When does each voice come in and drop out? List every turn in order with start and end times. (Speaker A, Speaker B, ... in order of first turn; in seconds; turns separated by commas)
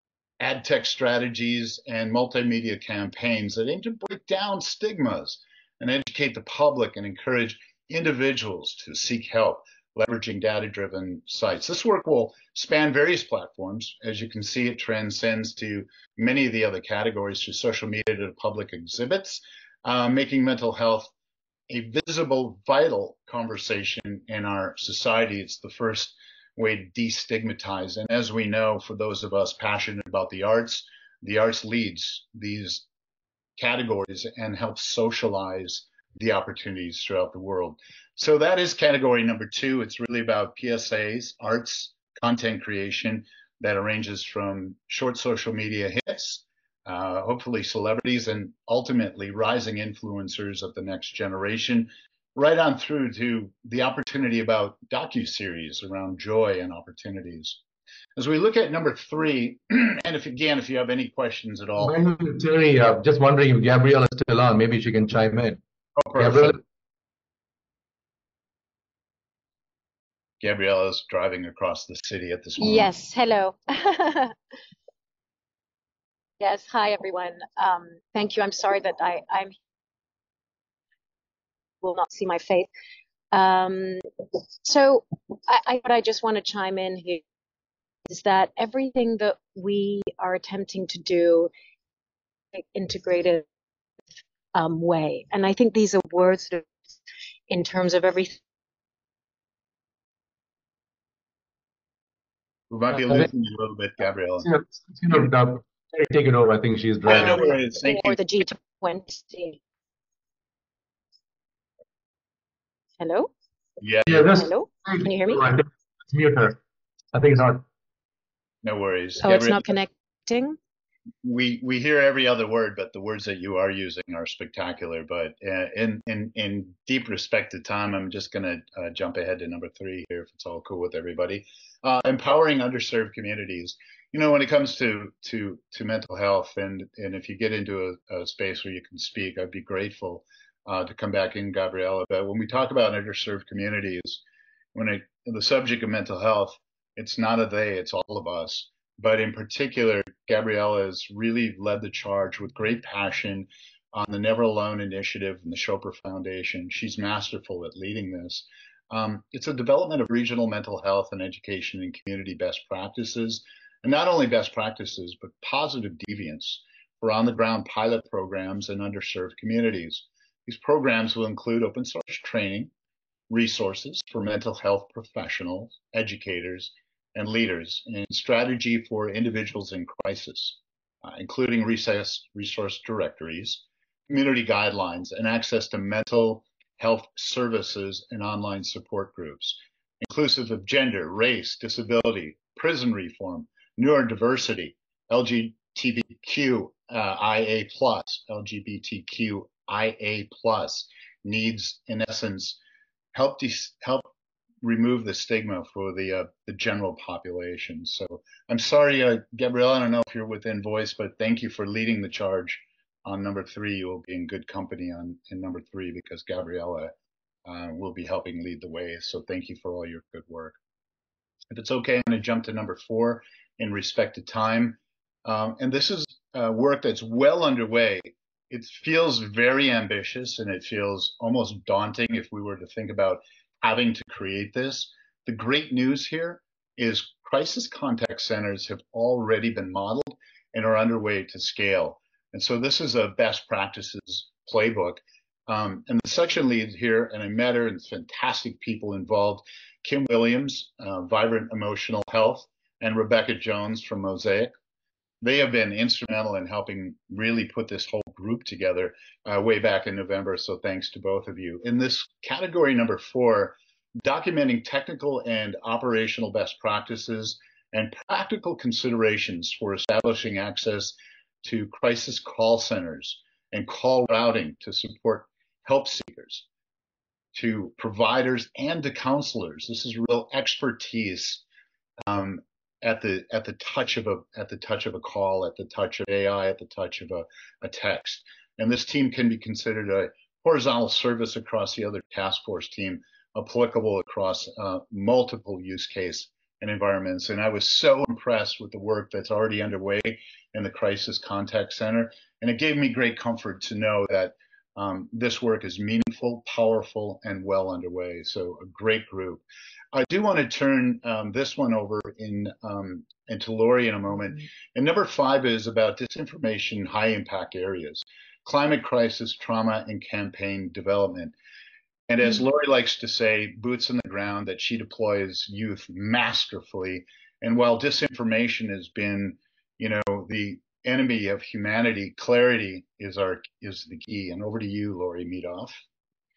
Speaker A: 0.4-21.1, Speaker A: 21.7-32.9, Speaker A: 33.6-57.6, Speaker A: 58.2-62.0, Speaker B: 61.8-65.6, Speaker A: 66.0-66.6, Speaker B: 66.2-66.6, Speaker A: 70.4-72.9, Speaker C: 72.6-74.3, Speaker C: 76.4-79.5, Speaker C: 81.8-82.7, Speaker C: 83.3-87.2, Speaker C: 88.1-91.5, Speaker C: 92.5-93.4, Speaker C: 94.5-97.0, Speaker C: 97.5-98.4, Speaker A: 102.7-104.5, Speaker B: 102.9-103.3, Speaker B: 104.4-107.6, Speaker A: 107.0-108.2, Speaker C: 107.1-109.6, Speaker C: 113.0-113.3, Speaker A: 113.8-114.2, Speaker B: 114.1-116.6, Speaker C: 114.2-115.5, Speaker B: 117.1-117.6, Speaker A: 118.6-119.7, Speaker C: 119.2-120.6, Speaker A: 121.2-144.2, Speaker A: 144.7-172.7, Speaker A: 173.3-202.6, Speaker A: 203.1-204.1, Speaker A: 204.6-216.9, Speaker A: 217.4-220.6, Speaker A: 221.5-254.5, Speaker A: 255.2-276.4, Speaker A: 277.3-281.4, Speaker A: 282.0-309.4, Speaker A: 309.9-321.3, Speaker A: 322.1-335.8